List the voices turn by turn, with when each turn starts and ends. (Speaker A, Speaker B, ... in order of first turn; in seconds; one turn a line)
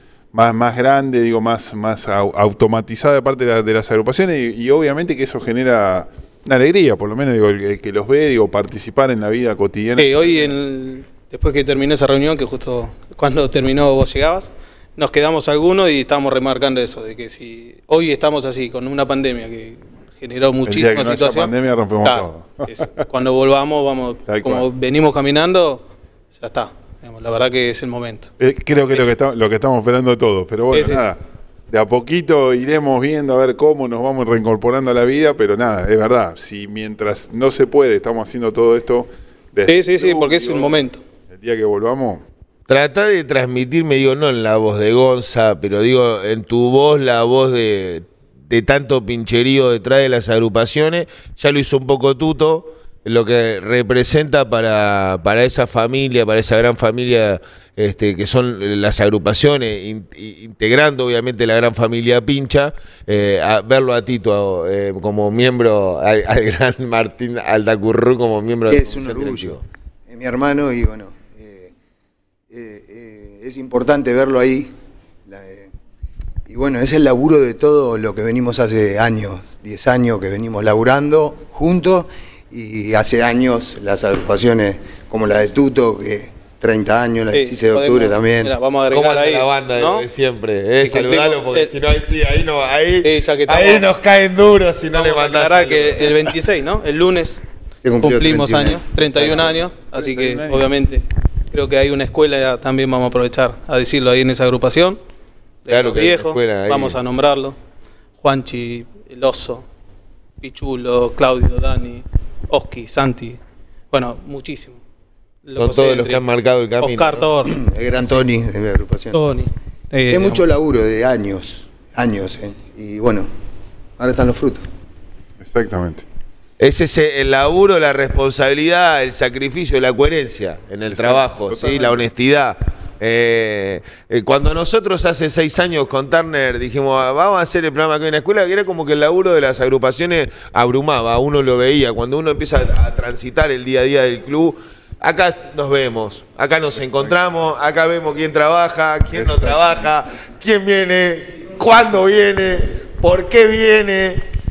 Speaker A: 0.3-10.3
Speaker B: 10.0-21.5
Speaker A: 20.7-22.9
Speaker B: 22.0-28.3
Speaker A: 24.3-24.7
Speaker A: 28.4-31.2
Speaker B: 30.7-31.1
Speaker A: 31.7-40.8
Speaker B: 39.7-41.0
Speaker A: 41.3-42.2
Speaker C: 42.7-69.6
Speaker D: 68.7-71.7
Speaker D: 72.5-74.7
Speaker D: 75.3-75.7
Speaker D: 76.5-88.5
Speaker B: 87.3-90.1
Speaker C: 88.9-96.3
Speaker B: 90.8-91.7
Speaker B: 93.0-93.9
Speaker B: 94.9-97.4
Speaker D: 97.8-99.5
Speaker B: 98.0-105.0
Speaker A: 99.2-100.7
Speaker B: 105.7-107.6
Speaker C: 105.7-107.0
Speaker B: 108.2-109.7
Speaker B: 110.4-113.4
Speaker B: 113.9-114.8
Speaker B: 115.5-116.2
Speaker C: 115.6-117.3
Speaker B: 116.8-117.6
Speaker D: 117.4-119.2
Speaker B: 119.1-120.5
Speaker D: 120.1-123.3
Speaker D: 124.0-124.6
Speaker A: 125.4-126.0
Speaker C: 126.6-154.2
Speaker A: 130.9-132.1
Speaker A: 146.8-147.2
Speaker A: 149.1-149.8